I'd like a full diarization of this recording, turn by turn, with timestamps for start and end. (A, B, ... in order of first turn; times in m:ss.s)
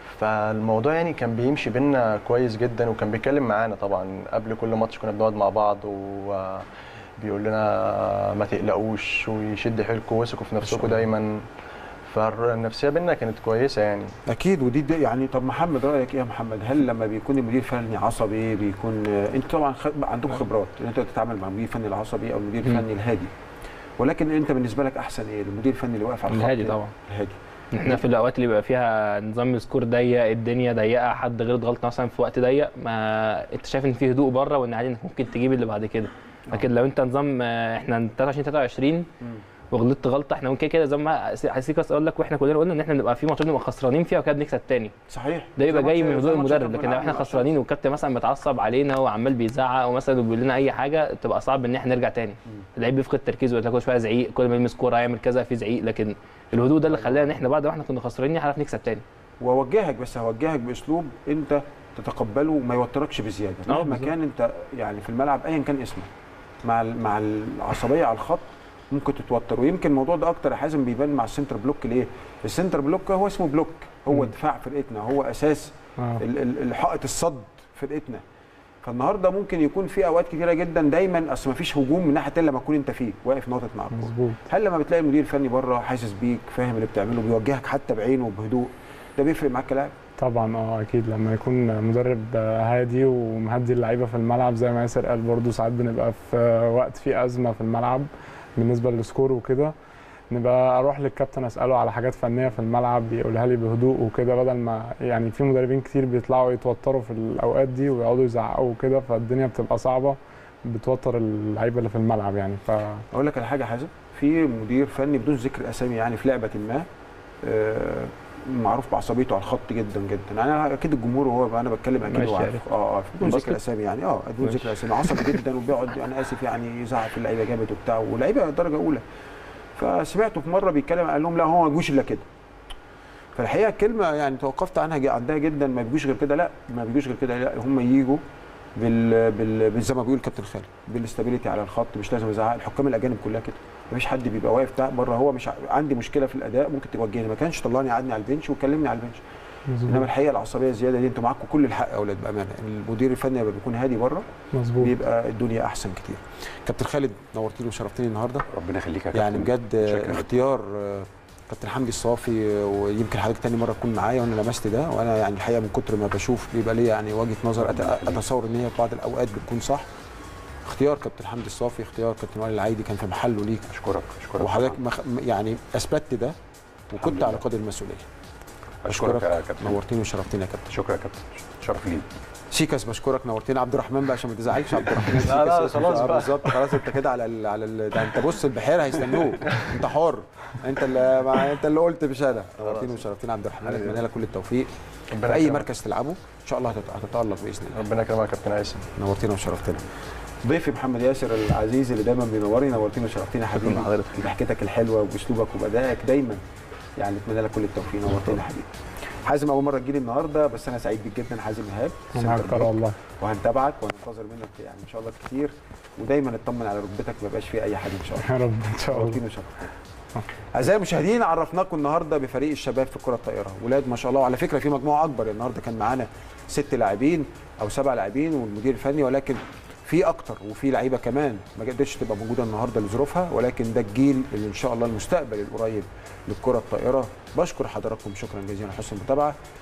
0:00.1-0:06.6 A
0:07.2-0:11.4 A
0:10.6-0:11.0 B
0:12.1-0:14.1 A
0:14.3-0:23.3 B
0:24.0-0:27.4 B
0:26.3-0:26.9 C
0:27.7-0:39.1 C
0:39.7-0:44.9 C
0:45.1-0:47.6 B
0:45.6-0:59.0 C
0:56.6-0:57.4 B
0:59.4-1:06.1 B
1:03.7-1:04.1 C
1:06.6-1:18.2 B
1:16.0-1:16.2 D
1:18.8-1:29.9 B
1:23.9-1:24.4 D
1:30.2-1:39.7 D
1:40.3-1:53.0 D
1:53.1-1:56.9 B
1:57.4-2:09.0 B
2:02.1-2:02.6 C
2:03.2-2:03.6 C
2:04.4-2:05.4 C
2:09.8-2:12.3 B
2:13.4-2:18.2 B
2:18.8-2:29.2 B
2:29.7-2:30.1 D
2:29.8-2:34.2 B
2:34.5-2:34.9 D
2:34.8-2:38.4 B
2:38.5-2:40.4 E
2:39.1-2:49.9 B
2:47.6-2:48.2 E
2:50.6-2:53.7 B
2:53.7-2:54.8 E
2:54.4-2:56.4 B
2:56.9-2:58.1 B
2:57.0-2:57.4 E
2:58.8-2:59.8 E
2:58.9-3:00.7 B
3:00.7-3:02.1 E
3:02.5-3:14.7 B
3:05.1-3:06.6 A
3:12.6-3:13.0 A
3:13.6-3:14.0 A
3:15.1-3:15.7 A
3:15.2-3:17.8 B
3:17.7-3:18.9 A
3:19.0-3:19.8 B
3:20.4-3:26.4 B
3:23.5-3:24.3 C
3:27.0-3:28.7 B
3:29.2-3:38.3 B
3:32.1-3:33.0 D
3:38.2-3:39.2 D
3:38.9-3:39.7 B
3:40.5-3:59.3 B